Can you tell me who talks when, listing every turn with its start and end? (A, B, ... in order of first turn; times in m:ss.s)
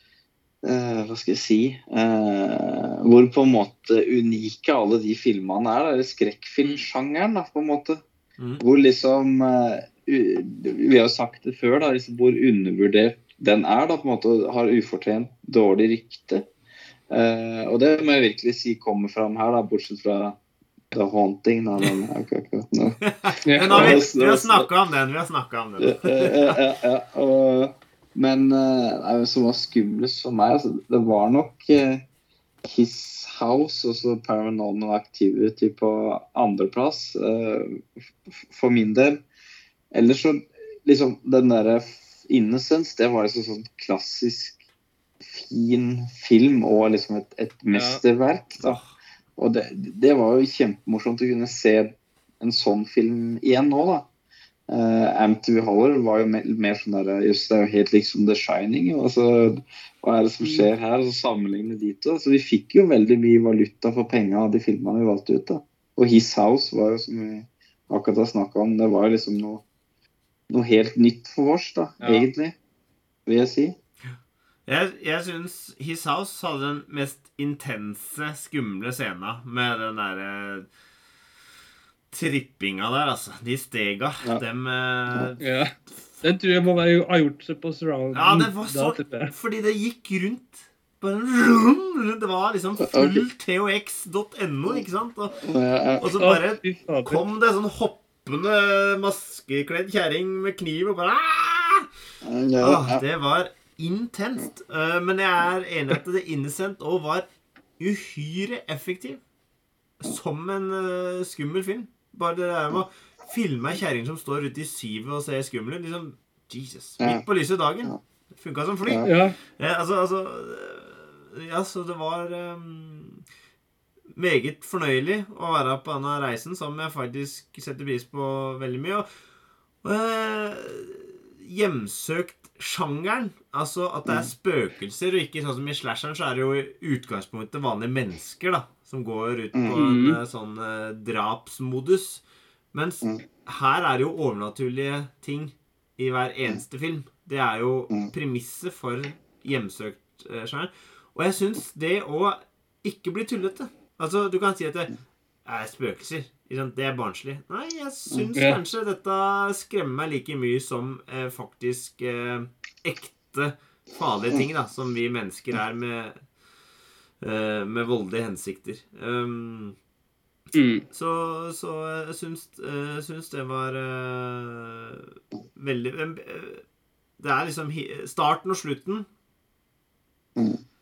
0:00.6-0:08.0 A
0:08.6-0:16.5 A
0:17.1-0:20.4 A
0:20.9-0:23.0 A
0:23.0-0:26.6 B
0:23.4-0:24.0 C
0:23.7-0:24.7 A
0:25.8-0:32.0 A
0:32.6-0:39.2 A
0:39.9-0:44.6 A
0:45.2-0:48.8 A
0:47.7-0:48.0 C
0:48.6-0:48.9 B
0:49.4-0:54.1 A
0:54.7-1:09.6 A
1:00.4-1:00.7 C
1:10.5-1:12.6 A
1:12.0-1:12.3 C
1:13.3-1:13.8 A
1:14.7-1:20.7 B
1:22.1-1:25.4 B
1:25.4-1:29.3 C
1:28.1-1:35.4 B
1:32.8-1:33.2 A
1:35.4-1:36.1 A
1:36.0-1:41.9 B
1:36.2-1:37.3 C
1:42.2-1:43.0 A
1:42.6-1:47.3 B
1:47.8-1:49.2 B
1:50.0-2:03.2 B
1:59.0-1:59.4 C
2:04.2-2:09.1 B
2:09.8-2:46.2 B
2:19.7-2:20.2 C
2:38.4-2:38.6 C
2:47.2-2:49.8 B
2:50.5-2:50.8 C
2:50.9-2:56.6 B
2:57.2-2:59.1 B
3:00.4-3:00.6 A